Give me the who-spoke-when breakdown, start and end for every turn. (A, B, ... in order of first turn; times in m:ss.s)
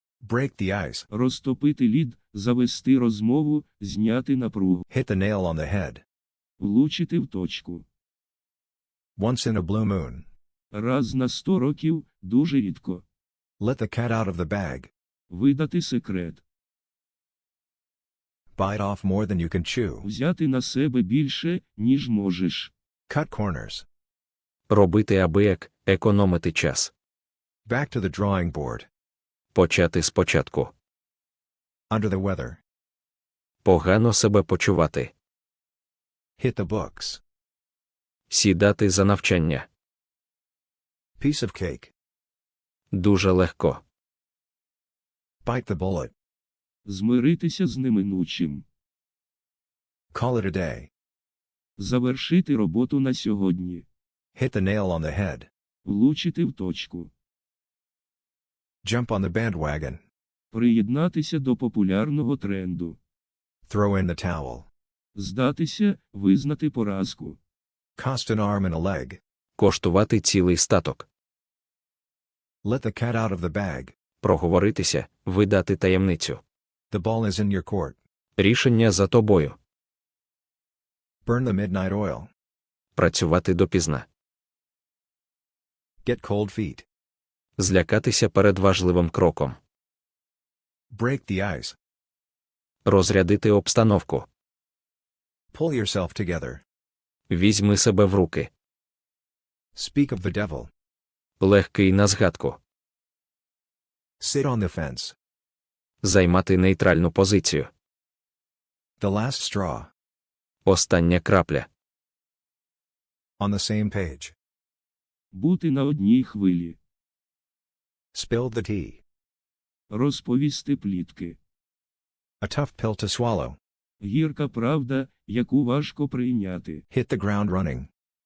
0:00.2-0:01.1 A
0:01.1-0:04.8 B
0:04.9-0:06.0 A
0:06.6-0:07.8 B
0:09.2-0:10.3 A
0:10.7-0:13.0 B
0:13.6-0:14.9 A
0:15.3-0:16.4 B
0:18.6-0:20.1 A
0:20.0-0:22.7 B
0:23.1-0:23.8 A
0:24.7-0:26.9 C
0:27.6-0:28.9 A
0:29.5-0:30.7 C
0:31.9-0:32.6 A
0:33.6-0:35.1 C
0:36.4-0:37.2 A
0:38.3-0:39.7 C
0:41.2-0:41.9 A
0:42.9-0:43.8 C
0:45.4-0:46.1 A
0:46.8-0:48.6 B
0:50.1-0:50.9 A
0:51.8-0:53.8 B
0:54.4-0:55.5 A
0:55.8-0:57.1 B
0:58.8-1:00.0 A
1:00.5-1:03.0 B
1:03.7-1:04.7 A
1:05.2-1:07.4 B
1:08.0-1:09.2 A
1:09.6-1:11.0 C
1:12.6-1:13.9 A
1:14.2-1:16.4 C
1:16.9-1:18.0 A
1:18.4-1:19.6 C
1:21.2-1:22.3 A
1:23.0-1:24.0 C
1:26.0-1:26.8 A
1:27.6-1:29.6 C
1:30.9-1:31.8 A
1:32.8-1:34.3 C
1:35.5-1:36.6 A
1:37.3-1:38.5 C
1:39.7-1:40.7 A
1:41.4-1:42.6 C
1:44.2-1:45.2 A
1:46.0-1:47.7 C
1:49.0-1:49.9 A
1:50.6-1:51.7 C
1:53.4-1:54.3 A
1:55.3-1:56.8 B
1:58.1-1:59.0 A
1:59.9-2:01.4 B
2:02.4-2:03.6 A
2:04.0-2:06.8 B
2:06.9-2:07.9 A